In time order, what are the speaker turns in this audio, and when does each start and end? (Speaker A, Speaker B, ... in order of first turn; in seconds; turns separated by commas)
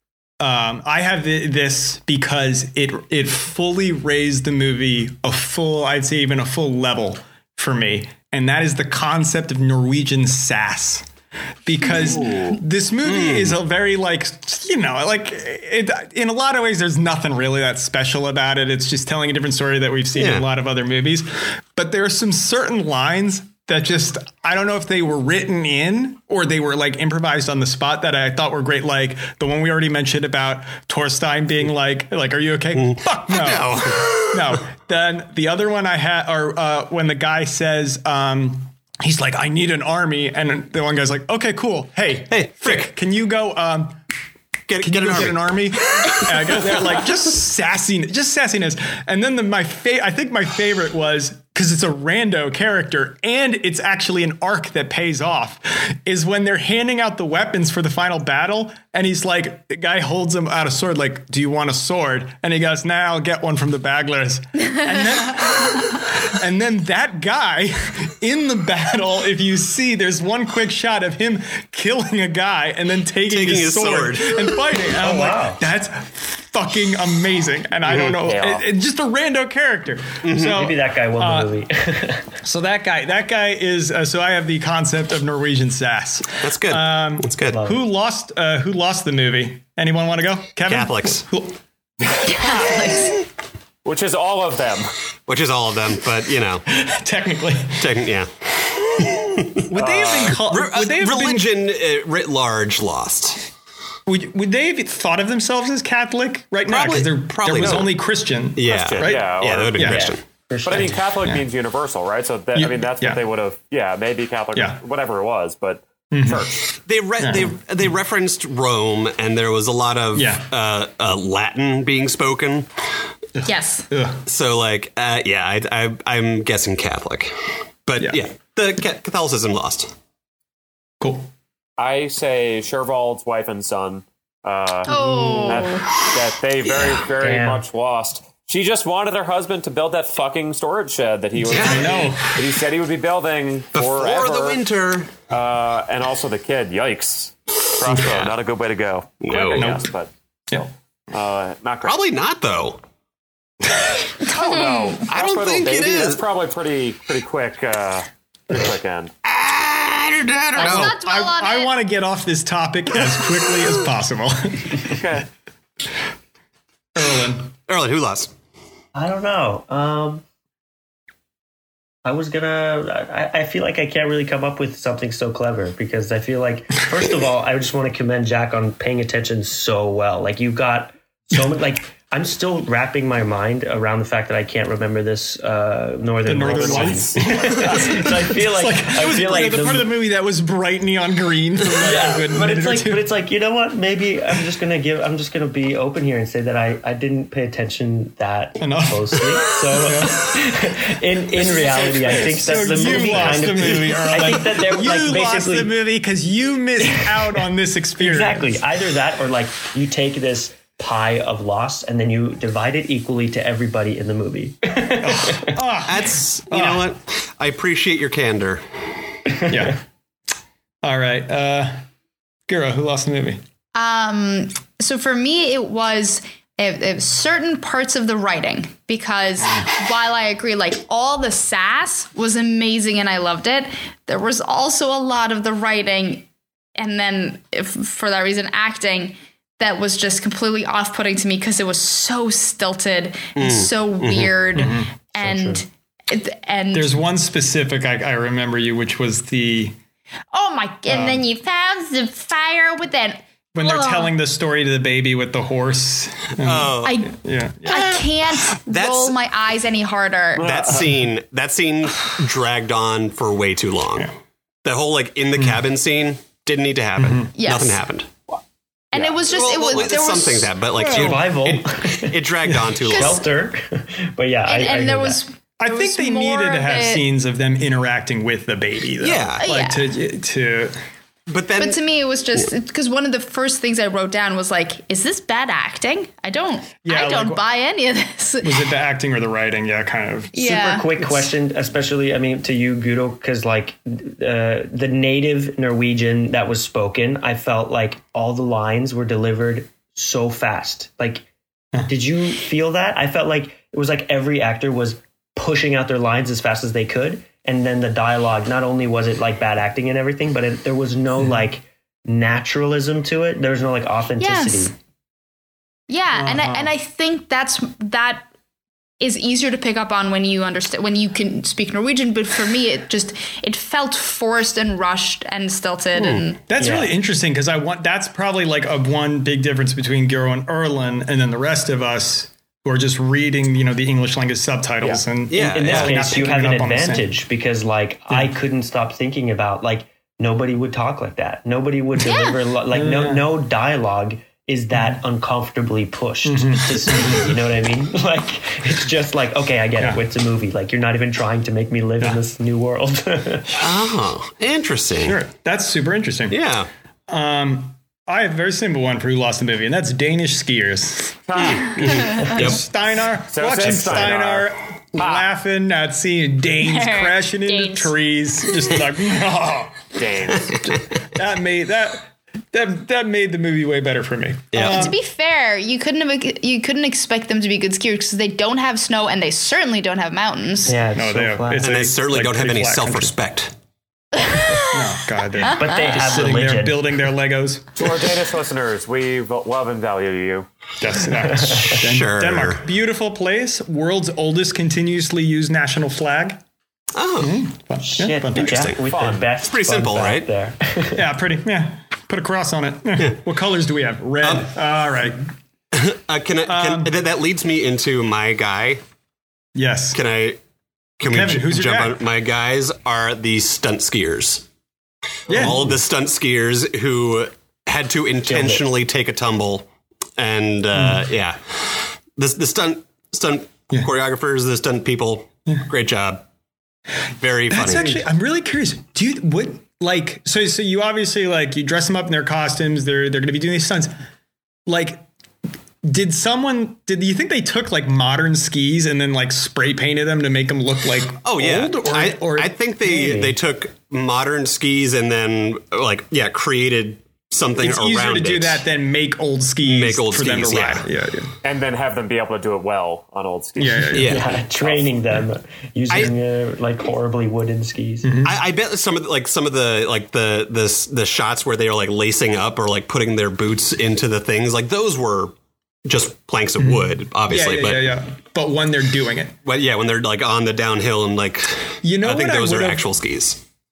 Speaker A: 0.4-11.1, Speaker A: 11.6-44.0, Speaker B: 12.1-12.4, Speaker C: 13.1-13.6, Speaker C: 20.1-20.4, Speaker C: 32.7-34.6, Speaker C: 42.3-42.9, Speaker C: 44.7-45.4, Speaker A: 44.7-81.5, Speaker C: 46.0-47.0, Speaker C: 73.3-74.5, Speaker D: 75.0-75.6, Speaker E: 77.8-78.6, Speaker C: 80.2-80.6, Speaker D: 80.4-82.3, Speaker A: 82.4-91.6, Speaker C: 86.4-87.6, Speaker D: 87.5-87.8, Speaker C: 90.7-91.2, Speaker B: 92.2-93.2, Speaker E: 93.8-94.9, Speaker C: 95.3-96.6, Speaker A: 96.7-97.9, Speaker C: 97.8-103.5, Speaker A: 99.0-101.5, Speaker E: 99.8-100.3, Speaker A: 104.0-110.1, Speaker C: 106.7-107.9, Speaker E: 107.5-107.8, Speaker C: 108.5-110.2, Speaker E: 108.6-109.8, Speaker D: 109.8-111.0, Speaker E: 110.6-116.7, Speaker A: 112.5-113.2, Speaker A: 116.1-116.5, Speaker C: 116.8-122.7, Speaker A: 117.2-117.5, Speaker A: 120.1-120.5, Speaker A: 123.3-124.2, Speaker B: 123.4-123.9, Speaker C: 124.3-129.9, Speaker A: 131.0-131.3, Speaker E: 131.8-134.9, Speaker A: 134.9-135.7, Speaker B: 134.9-135.9, Speaker E: 135.4-144.6, Speaker D: 137.2-137.6, Speaker C: 141.4-142.1, Speaker A: 141.5-142.4, Speaker C: 143.7-145.1, Speaker E: 145.3-152.0, Speaker C: 148.0-148.3, Speaker C: 149.2-149.8, Speaker A: 149.6-149.8, Speaker C: 151.8-152.8, Speaker B: 154.2-155.1, Speaker E: 154.3-159.1, Speaker C: 155.1-156.2, Speaker C: 159.2-160.9, Speaker A: 160.5-165.0, Speaker B: 160.6-161.7, Speaker E: 164.9-165.3, Speaker A: 166.9-167.5, Speaker C: 167.7-168.3, Speaker D: 168.9-170.2, Speaker D: 172.0-189.9, Speaker A: 186.2-193.1, Speaker E: 186.4-188.0, Speaker D: 191.8-205.7, Speaker A: 198.6-200.3, Speaker E: 201.4-203.7, Speaker A: 202.3-208.6, Speaker D: 206.8-207.3, Speaker D: 208.0-215.6, Speaker A: 215.0-216.9, Speaker C: 215.8-218.6, Speaker A: 219.5-219.8, Speaker A: 220.8-221.8, Speaker A: 222.5-223.4, Speaker B: 223.7-236.2, Speaker B: 236.8-246.9, Speaker C: 243.3-244.3, Speaker A: 244.5-244.9, Speaker D: 245.2-245.6, Speaker A: 246.7-249.7, Speaker B: 250.3-254.1, Speaker A: 250.9-251.2, Speaker A: 253.5-257.9, Speaker C: 256.4-257.1, Speaker B: 256.8-257.1, Speaker B: 257.6-260.6, Speaker C: 257.7-259.1, Speaker C: 260.4-264.1, Speaker E: 260.4-261.0, Speaker C: 264.6-268.1, Speaker A: 267.0-267.3, Speaker B: 267.4-267.8, Speaker B: 268.9-270.5, Speaker C: 269.1-273.2, Speaker A: 270.8-271.2, Speaker D: 270.9-272.2, Speaker A: 272.5-272.8, Speaker B: 272.8-273.2, Speaker D: 272.8-275.2, Speaker B: 274.4-277.0, Speaker A: 275.6-280.7, Speaker C: 279.0-279.4, Speaker B: 279.4-279.8, Speaker C: 281.3-281.8, Speaker B: 281.6-288.7, Speaker A: 286.8-287.4, Speaker A: 288.4-291.3, Speaker B: 290.3-290.9, Speaker D: 290.4-301.3, Speaker D: 301.9-314.7, Speaker B: 314.2-314.7, Speaker B: 315.9-318.2, Speaker A: 316.1-316.7, Speaker B: 319.0-326.4, Speaker C: 325.9-326.3, Speaker A: 326.5-337.1, Speaker D: 326.6-326.9, Speaker C: 335.3-336.0, Speaker D: 335.3-353.5, Speaker B: 342.0-342.4, Speaker A: 342.7-343.2, Speaker A: 344.7-345.0, Speaker A: 346.2-347.4, Speaker A: 353.5-353.8, Speaker C: 353.6-355.2, Speaker A: 355.0-356.4, Speaker C: 356.3-356.7, Speaker A: 357.1-361.2, Speaker E: 361.3-362.3, Speaker C: 361.4-362.6, Speaker A: 361.9-369.9, Speaker E: 363.3-365.3, Speaker B: 366.6-367.9, Speaker E: 369.9-370.6, Speaker A: 370.6-375.0, Speaker C: 374.5-375.0, Speaker B: 374.6-380.8, Speaker D: 380.6-381.7, Speaker A: 380.9-383.1, Speaker C: 381.6-383.5, Speaker B: 384.1-384.9, Speaker A: 384.7-387.9, Speaker D: 385.4-386.9, Speaker B: 385.4-385.7, Speaker E: 387.8-390.5, Speaker A: 390.8-396.4, Speaker D: 391.2-391.8, Speaker C: 391.8-392.7, Speaker C: 396.9-397.4, Speaker A: 397.2-398.7, Speaker D: 397.8-401.0, Speaker C: 398.3-398.8, Speaker E: 398.9-399.2, Speaker C: 399.4-400.3, Speaker A: 400.9-405.2, Speaker C: 404.2-404.5, Speaker C: 405.7-408.8, Speaker A: 406.5-406.9, Speaker A: 409.5-410.0, Speaker C: 409.9-410.4, Speaker C: 411.0-414.4, Speaker A: 411.0-412.0, Speaker A: 415.3-415.7, Speaker C: 415.3-426.2, Speaker D: 418.3-418.6, Speaker A: 420.7-421.0, Speaker C: 427.2-427.9, Speaker A: 427.5-433.9, Speaker A: 434.7-435.0, Speaker A: 435.8-443.4, Speaker C: 441.2-448.6, Speaker A: 447.6-451.3, Speaker C: 449.6-450.9, Speaker E: 451.4-454.9, Speaker A: 453.6-454.2, Speaker C: 453.9-454.3, Speaker D: 453.9-458.1, Speaker A: 458.0-458.3, Speaker C: 458.2-467.9, Speaker A: 466.6-469.4, Speaker C: 469.4-473.4, Speaker A: 471.8-472.9